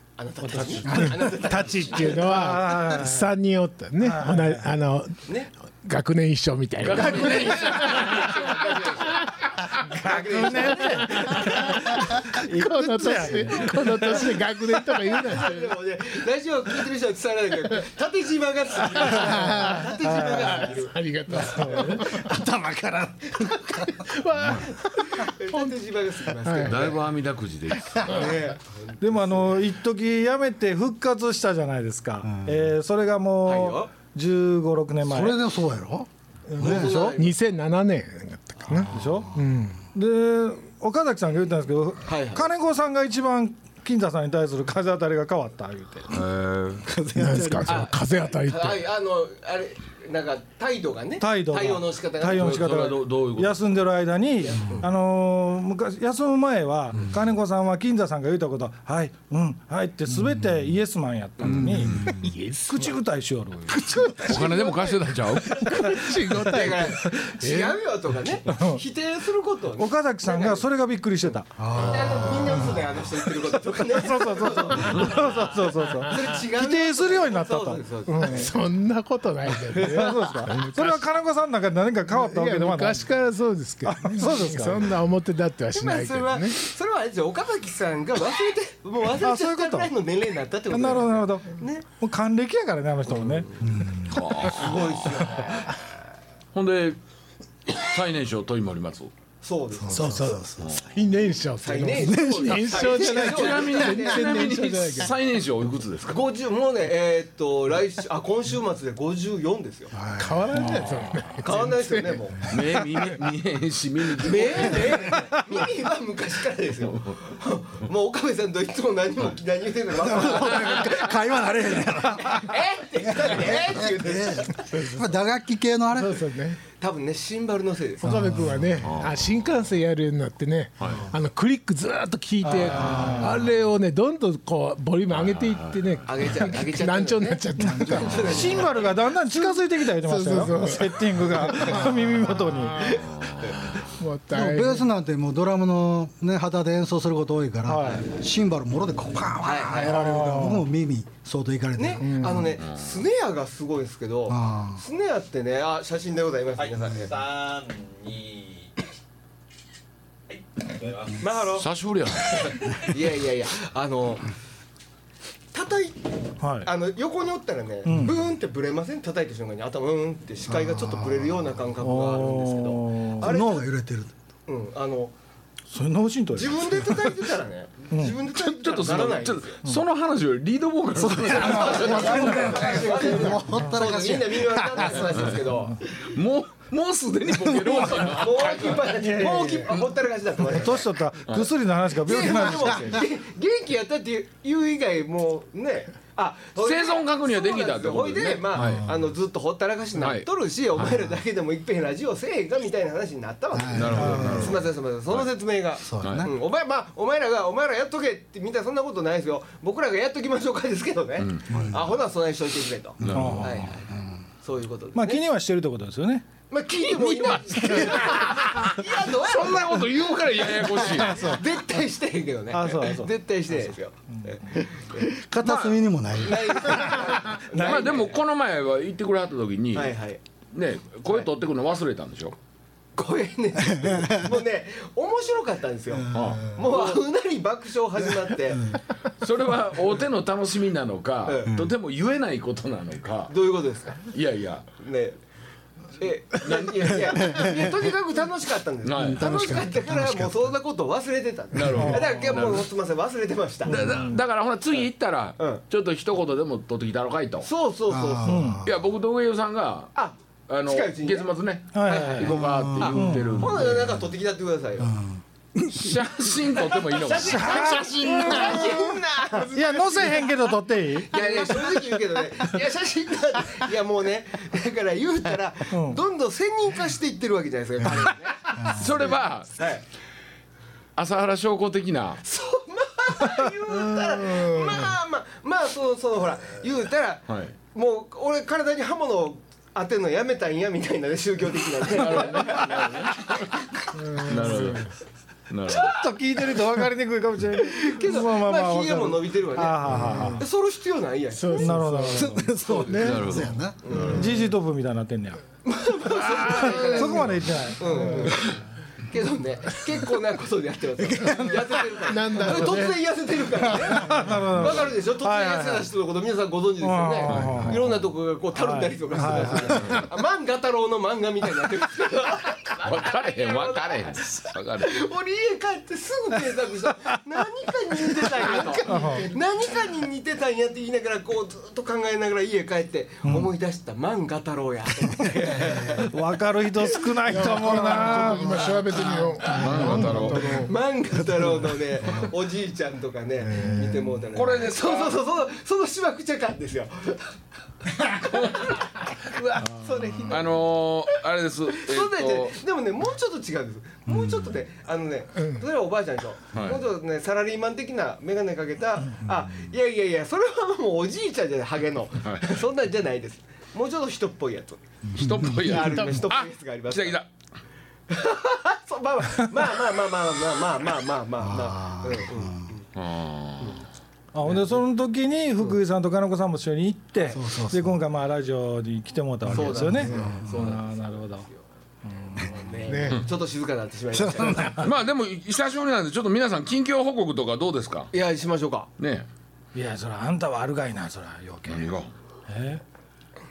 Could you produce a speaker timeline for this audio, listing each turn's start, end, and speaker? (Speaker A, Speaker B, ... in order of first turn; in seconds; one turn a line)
Speaker A: 0.2-2.5
Speaker B: 0.4-1.0
Speaker C: 0.8-1.2
Speaker D: 1.2-5.2
Speaker B: 2.2-3.3
Speaker B: 4.0-4.6
Speaker A: 5.3-5.5
Speaker D: 5.8-9.3
Speaker E: 6.8-8.8
Speaker A: 7.0-9.2
Speaker A: 9.8-14.5
Speaker D: 9.9-15.8
Speaker B: 10.1-14.3
Speaker A: 15.1-22.1
Speaker D: 19.0-22.4
Speaker B: 19.2-20.7
Speaker B: 21.3-22.0
Speaker C: 22.2-24.0
Speaker D: 23.7-26.9
Speaker A: 24.6-27.0
Speaker E: 26.6-28.3
Speaker D: 27.9-28.5
Speaker A: 28.0-29.5
Speaker B: 29.0-35.4
Speaker C: 32.2-32.6
Speaker A: 33.5-33.9
Speaker C: 35.0-37.2
Speaker D: 36.5-39.8
Speaker A: 36.6-37.4
Speaker C: 38.7-39.3
Speaker B: 38.9-39.4
Speaker B: 40.0-46.2
Speaker A: 42.1-42.5
Speaker E: 46.1-46.9
Speaker C: 46.9-47.9
Speaker D: 47.1-48.9
Speaker A: 47.7-52.8
Speaker B: 51.2-63.9
Speaker E: 52.3-53.6
Speaker A: 54.6-54.9
Speaker C: 60.1-60.5
Speaker C: 61.4-62.3
Speaker D: 62.0-63.0
Speaker D: 63.7-67.8
Speaker E: 64.2-65.8
Speaker A: 65.7-70.6
Speaker B: 68.5-68.8
Speaker B: 69.8-71.6
Speaker C: 71.6-72.8
Speaker A: 71.8-75.5
Speaker B: 73.9-78.3
Speaker A: 76.1-78.5
Speaker D: 78.1-81.1
Speaker B: 79.7-83.1
Speaker D: 82.1-86.6
Speaker B: 83.8-84.9
Speaker A: 85.7-91.8
Speaker B: 89.2-89.9
Speaker B: 90.7-93.5
Speaker A: 93.1-95.8
Speaker C: 93.6-94.2
Speaker E: 94.0-95.6
Speaker E: 96.5-97.0
Speaker E: 97.7-99.1
Speaker A: 99.4-100.3
Speaker C: 99.8-100.7
Speaker D: 99.9-105.1
Speaker E: 100.6-101.0
Speaker A: 101.6-104.5
Speaker C: 101.9-103.1
Speaker E: 103.1-106.2
Speaker A: 106.1-109.9
Speaker C: 109.9-110.7
Speaker D: 110.2-113.2
Speaker A: 111.4-112.4
Speaker E: 112.5-115.0
Speaker A: 114.2-121.1
Speaker B: 115.2-115.4
Speaker C: 119.9-126.2
Speaker E: 120.5-121.0
Speaker A: 122.2-124.7
Speaker D: 124.7-125.2
Speaker D: 125.9-126.6
Speaker A: 126.8-128.2
Speaker D: 128.0-144.8
Speaker C: 128.1-128.6
Speaker E: 128.8-129.4
Speaker E: 130.8-131.1
Speaker B: 132.4-133.4
Speaker C: 132.7-133.3
Speaker E: 135.1-136.2
Speaker A: 136.1-139.0
Speaker B: 137.6-143.0
Speaker A: 141.6-142.1
Speaker E: 142.9-144.0
Speaker A: 143.0-143.7
Speaker C: 144.3-152.5
Speaker B: 147.7-148.1
Speaker A: 149.4-149.9
Speaker D: 149.6-150.7
Speaker B: 149.8-150.5
Speaker A: 151.8-157.2
Speaker D: 152.0-152.6
Speaker E: 152.6-153.0
Speaker C: 154.3-154.8
Speaker F: 156.6-158.7
Speaker F: 160.3-161.5
Speaker A: 161.2-161.7
Speaker E: 161.6-162.8
Speaker A: 162.8-164.3
Speaker A: 165.5-173.6
Speaker B: 166.4-166.7
Speaker B: 167.9-168.2
Speaker C: 170.5-171.3
Speaker B: 171.8-173.3
Speaker C: 173.2-174.1
Speaker A: 174.5-175.1
Speaker B: 175.7-177.3
Speaker A: 176.3-179.6
Speaker B: 177.9-178.2
Speaker E: 178.3-182.9
Speaker C: 181.0-185.1
Speaker A: 181.4-186.2
Speaker D: 182.0-183.4
Speaker E: 185.0-185.4
Speaker E: 185.9-189.0
Speaker A: 187.9-190.9
Speaker B: 188.9-189.7
Speaker B: 190.4-193.0
Speaker A: 192.0-213.9
Speaker E: 196.6-198.9
Speaker C: 198.6-199.0
Speaker E: 200.0-200.9
Speaker C: 203.5-204.6
Speaker E: 203.7-205.3
Speaker B: 204.0-204.4
Speaker C: 205.8-206.3
Speaker E: 206.0-206.3
Speaker E: 211.2-211.8
Speaker C: 211.5-211.8
Speaker C: 213.0-213.4
Speaker E: 213.0-213.7
Speaker B: 213.1-213.7
Speaker A: 214.4-215.2
Speaker B: 214.9-216.3
Speaker A: 216.5-225.1
Speaker E: 216.9-221.3
Speaker B: 221.1-221.4
Speaker B: 222.5-223.1
Speaker C: 225.0-227.1
Speaker B: 225.4-225.8
Speaker A: 226.2-228.2
Speaker E: 227.5-230.0
Speaker B: 227.6-227.9
Speaker A: 229.7-230.2
Speaker E: 230.5-232.4
Speaker A: 233.0-238.8
Speaker C: 233.6-234.3
Speaker C: 236.0-236.7
Speaker E: 236.1-236.5
Speaker E: 239.2-243.3
Speaker A: 241.2-241.6
Speaker A: 243.3-244.1
Speaker E: 244.1-244.7
Speaker A: 244.8-245.2
Speaker A: 246.0-253.8
Speaker C: 247.1-247.7
Speaker E: 248.8-249.3
Speaker C: 249.0-250.5
Speaker E: 251.5-252.7
Speaker B: 251.7-252.1
Speaker E: 253.7-257.5
Speaker B: 253.7-254.2
Speaker A: 255.4-255.6
Speaker A: 257.4-258.4
Speaker C: 257.9-258.7
Speaker B: 258.3-258.6
Speaker E: 258.6-259.9
Speaker A: 259.9-265.0
Speaker E: 260.5-263.8
Speaker B: 261.7-263.3
Speaker C: 262.3-264.0
Speaker C: 264.8-265.9
Speaker E: 265.7-267.8
Speaker A: 266.7-270.3
Speaker B: 267.2-268.8
Speaker B: 269.4-271.1
Speaker D: 269.6-270.3
Speaker A: 271.1-279.8
Speaker B: 275.7-276.0
Speaker E: 278.6-279.5
Speaker E: 281.0-282.2
Speaker A: 282.2-293.4
Speaker D: 283.7-284.9
Speaker E: 287.3-287.6
Speaker E: 291.9-293.7
Speaker D: 293.9-294.9
Speaker E: 294.2-294.9
Speaker E: 295.5-296.0
Speaker B: 295.7-300.5
Speaker A: 297.5-301.8
Speaker D: 299.9-300.4
Speaker C: 299.9-300.2
Speaker D: 301.3-304.4
Speaker B: 301.6-302.5
Speaker C: 302.1-304.2
Speaker A: 302.6-303.2
Speaker E: 303.0-304.1
Speaker A: 303.8-304.3
Speaker B: 304.1-305.4
Speaker A: 305.6-336.2
Speaker D: 306.1-308.5
Speaker B: 306.5-308.3
Speaker C: 311.0-312.0
Speaker D: 311.2-313.1
Speaker B: 313.9-315.9
Speaker B: 316.8-317.9
Speaker E: 317.3-317.8
Speaker B: 318.5-320.0
Speaker E: 322.8-325.1
Speaker D: 328.3-329.3
Speaker B: 328.9-329.3
Speaker B: 336.0-339.2
Speaker D: 337.1-340.7
Speaker E: 339.4-340.5
Speaker C: 339.8-340.2
Speaker A: 339.9-351.2
Speaker C: 341.4-342.3
Speaker C: 343.5-344.1
Speaker E: 344.3-345.2
Speaker E: 348.3-348.7
Speaker E: 350.3-352.6
Speaker A: 351.7-364.8
Speaker C: 354.1-354.6
Speaker E: 356.5-356.8
Speaker E: 362.2-362.5
Speaker C: 365.1-366.2
Speaker E: 365.2-367.3
Speaker A: 365.5-367.2
Speaker A: 368.1-372.9
Speaker C: 371.4-372.7
Speaker E: 372.9-373.9
Speaker B: 374.3-381.5
Speaker A: 374.5-374.8
Speaker C: 377.3-378.0
Speaker C: 379.5-380.8
Speaker A: 379.5-381.6
Speaker B: 382.1-382.6
Speaker A: 382.3-384.9
Speaker D: 382.9-383.3
Speaker C: 384.1-384.9
Speaker E: 384.8-388.1
Speaker A: 388.1-388.9
Speaker E: 389.0-389.3
Speaker B: 389.8-391.9
Speaker E: 391.7-392.1
Speaker B: 392.5-392.8